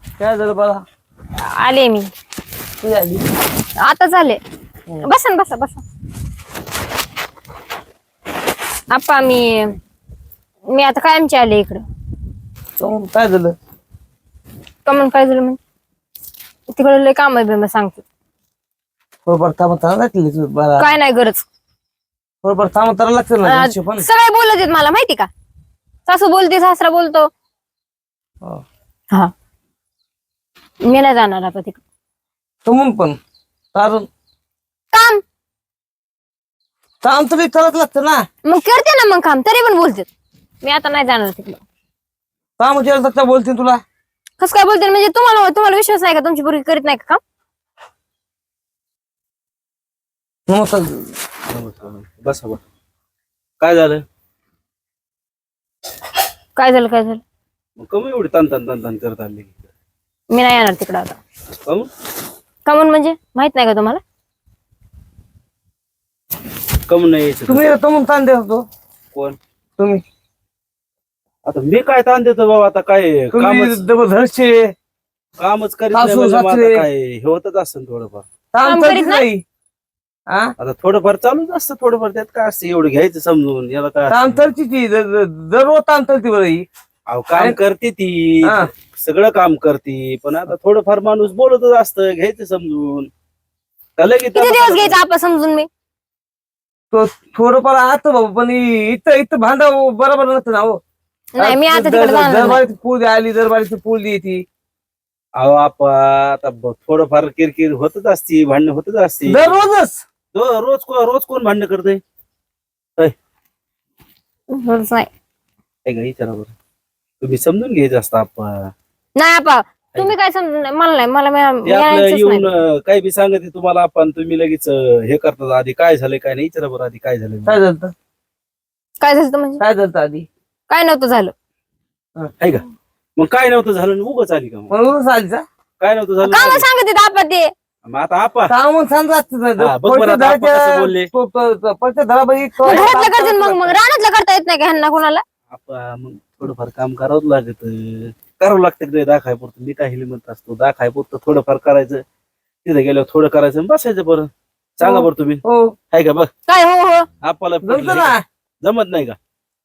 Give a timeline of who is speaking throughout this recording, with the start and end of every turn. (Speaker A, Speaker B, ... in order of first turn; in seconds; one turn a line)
Speaker A: 0.2-0.8
Speaker B: 1.4-2.1
Speaker A: 2.8-3.2
Speaker B: 3.8-4.4
Speaker B: 5.0-5.8
Speaker B: 8.9-9.8
Speaker B: 10.7-11.8
Speaker A: 12.8-13.5
Speaker B: 14.9-15.6
Speaker B: 16.7-18.0
Speaker A: 19.3-20.9
Speaker B: 20.8-21.4
Speaker A: 22.4-24.1
Speaker B: 23.4-25.3
Speaker B: 26.1-27.3
Speaker B: 30.8-31.8
Speaker A: 32.6-33.2
Speaker A: 33.7-34.1
Speaker B: 34.9-35.2
Speaker A: 37.0-38.2
Speaker B: 38.5-40.1
Speaker B: 40.6-41.6
Speaker A: 42.6-43.8
Speaker B: 44.4-47.2
Speaker A: 50.5-51.1
Speaker C: 51.5-52.6
Speaker C: 53.6-54.0
Speaker B: 56.6-57.2
Speaker C: 57.8-59.5
Speaker B: 60.3-61.2
Speaker B: 62.7-64.0
Speaker C: 66.9-67.7
Speaker A: 67.5-68.6
Speaker C: 71.5-73.8
Speaker A: 73.3-74.7
Speaker C: 75.4-78.3
Speaker A: 75.9-76.8
Speaker A: 78.5-79.4
Speaker B: 78.6-79.2
Speaker C: 80.6-84.4
Speaker A: 84.1-86.7
Speaker C: 87.1-93.1
Speaker A: 88.4-88.7
Speaker C: 94.0-95.0
Speaker B: 94.3-95.7
Speaker A: 96.9-100.8
Speaker B: 101.3-102.6
Speaker A: 101.4-104.4
Speaker C: 105.4-109.6
Speaker A: 109.3-110.0
Speaker C: 110.3-112.0
Speaker B: 114.5-115.1
Speaker C: 115.8-116.5
Speaker C: 117.2-118.7
Speaker B: 119.2-122.5
Speaker C: 121.7-127.6
Speaker A: 127.5-127.9
Speaker B: 129.0-129.6
Speaker A: 129.6-130.3
Speaker B: 130.7-131.3
Speaker C: 133.2-134.7
Speaker A: 134.7-135.4
Speaker C: 135.8-136.7
Speaker B: 136.2-137.5
Speaker C: 137.8-138.5
Speaker A: 138.5-143.8
Speaker C: 139.6-141.1
Speaker B: 142.7-145.2
Speaker C: 145.5-152.0
Speaker C: 152.7-156.3
Speaker A: 154.8-155.7
Speaker B: 156.5-157.1
Speaker C: 157.2-159.2
Speaker A: 157.6-158.2